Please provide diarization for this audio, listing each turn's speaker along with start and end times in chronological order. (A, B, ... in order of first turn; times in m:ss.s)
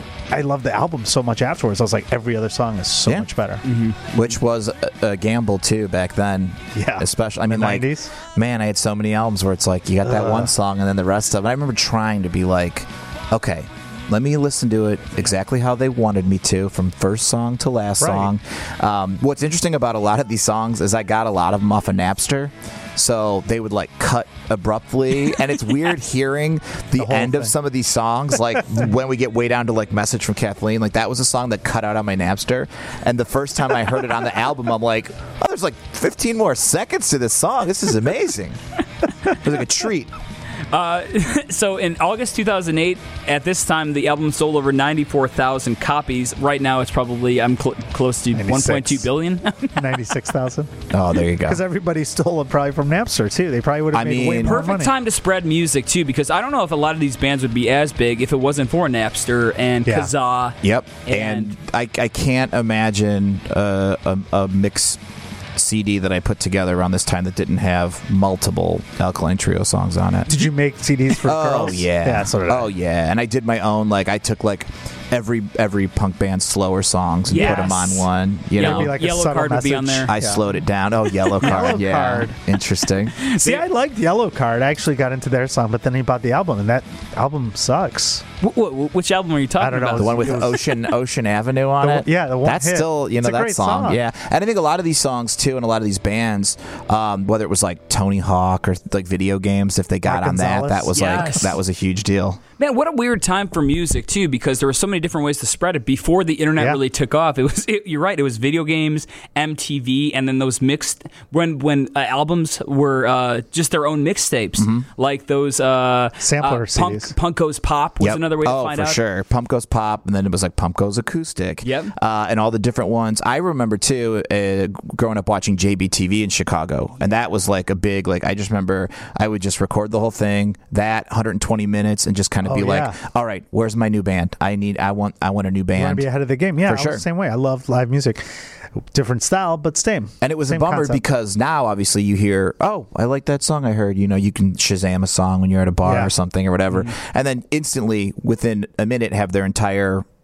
0:00.3-0:03.6 A
0:03.6-0:04.1 B
0:04.1-0:38.6 C
0:06.7-0:08.1 A
0:10.0-0:10.5 A
0:18.0-0:18.3 A
0:27.0-0:27.5 A
0:39.2-0:40.1 C
0:40.7-0:50.0 B
0:48.3-0:49.1 A
0:49.7-0:50.7 A
0:50.9-0:51.6 C
0:51.4-0:54.9 A
0:53.9-0:54.7 C
0:54.4-1:01.5 B
0:59.8-1:00.1 A
1:00.6-1:05.0 C
1:05.5-1:10.5 C
1:10.3-1:12.7 A
1:11.2-1:18.9 C
1:17.3-1:20.1 B
1:17.3-1:17.8 A
1:18.6-1:20.4 A
1:20.1-1:23.2 C
1:21.4-1:22.4 A
1:23.2-1:23.6 B
1:23.4-1:28.2 A
1:28.4-1:30.5 B
1:29.6-1:30.6 A
1:29.9-1:42.4 C
1:31.8-1:34.0 A
1:40.0-1:41.4 A
1:40.9-1:41.5 B
1:42.6-1:59.0 B
1:54.6-1:54.8 C
1:56.2-1:57.1 A
1:58.0-2:16.0 C
2:01.6-2:01.9 B
2:12.4-2:13.0 A
2:15.7-2:18.2 A
2:16.6-2:17.0 C
2:18.9-2:21.0 A
2:20.2-2:30.0 C
2:25.8-2:26.1 A